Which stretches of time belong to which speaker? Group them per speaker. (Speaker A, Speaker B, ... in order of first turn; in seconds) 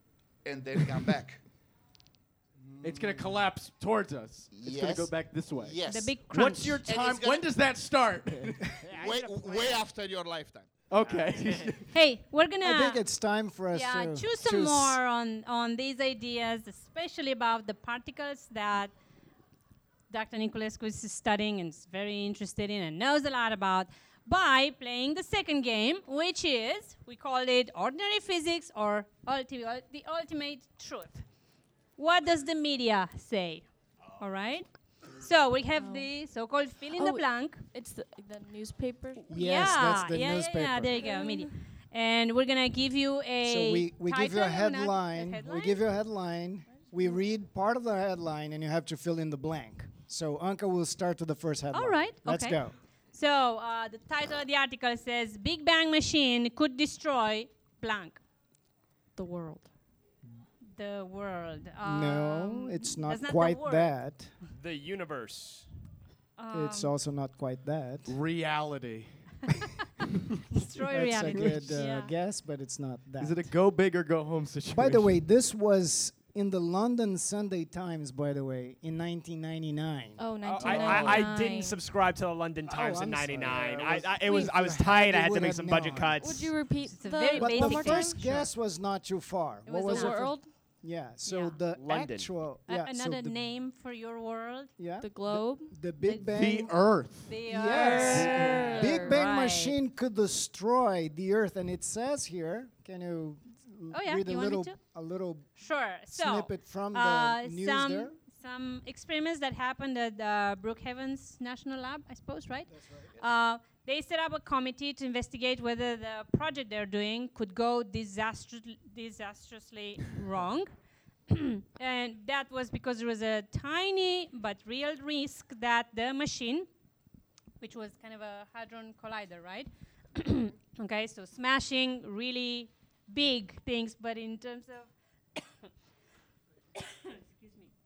Speaker A: 0.4-1.4, 4.5-6.2, 6.8-7.5, 8.9-10.7
Speaker B: 2.7-8.8, 10.9-11.9, 68.1-69.1, 71.3-71.8, 73.2-75.2, 80.6-81.3, 96.3-97.4
Speaker C: 5.9-6.8, 11.9-13.0, 13.7-18.9, 20.1-31.2, 32.0-33.6, 34.2-37.6, 39.3-45.8, 51.7-52.6, 53.1-58.2, 60.6-64.0, 66.4-66.9, 70.5-72.1, 86.9-88.1, 89.7-90.3, 91.2-91.6, 92.7-94.7, 97.2-99.8, 103.9-104.7, 105.6-120.7, 121.3-126.7, 127.6-134.9, 137.1-137.7
Speaker D: 8.8-9.8, 11.0-11.7, 64.5-65.7, 80.4-86.5, 91.8-92.3
Speaker E: 12.6-15.0, 39.3-41.0, 43.4-52.7, 61.8-64.3, 66.5-68.2, 70.8-73.5, 74.7-80.2, 82.7-86.2, 87.3-93.4, 94.8-96.7, 97.5-105.5, 106.1-108.1
Speaker F: 35.8-36.1, 36.9-39.3, 41.0-41.5, 46.8-47.2, 59.1-59.7, 80.2-81.8, 86.2-88.3, 89.8-90.5, 95.0-95.7, 97.6-99.2